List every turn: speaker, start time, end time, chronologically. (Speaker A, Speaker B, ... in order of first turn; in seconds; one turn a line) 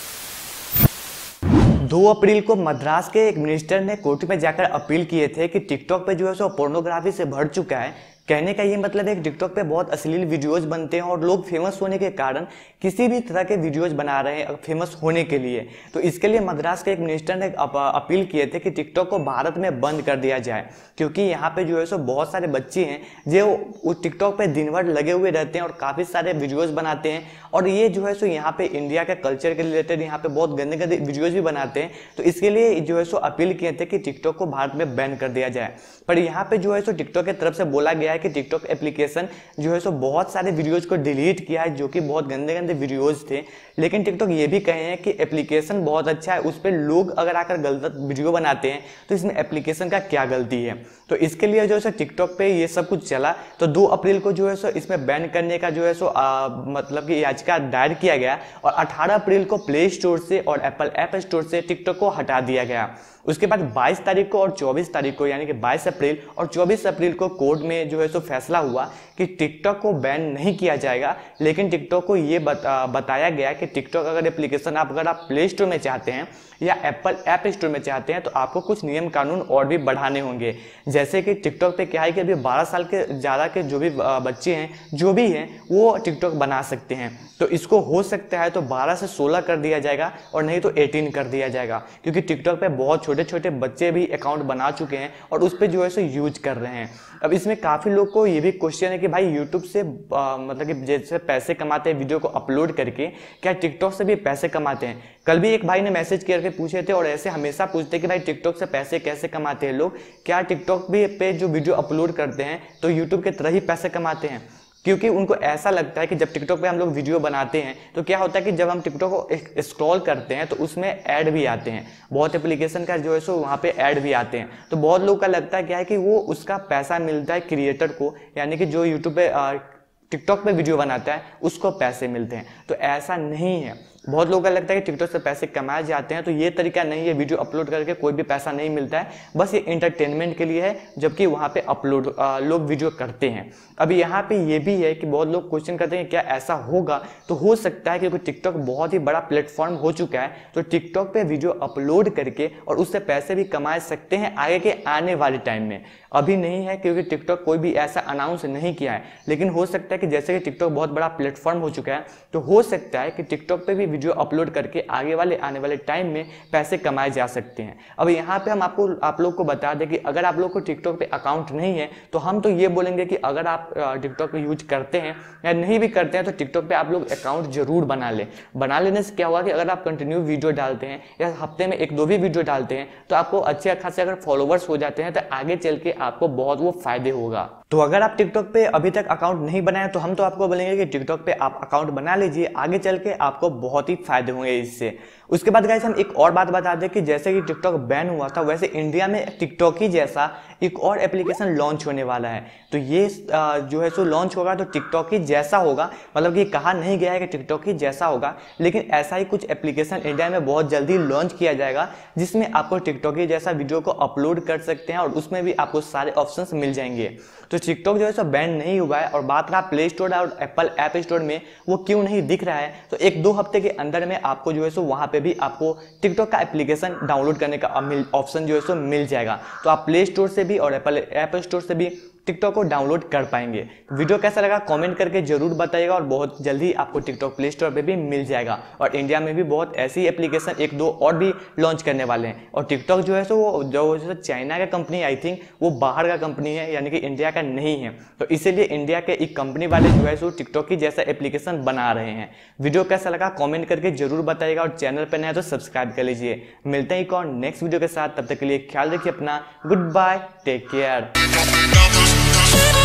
Speaker A: 1.8-261.1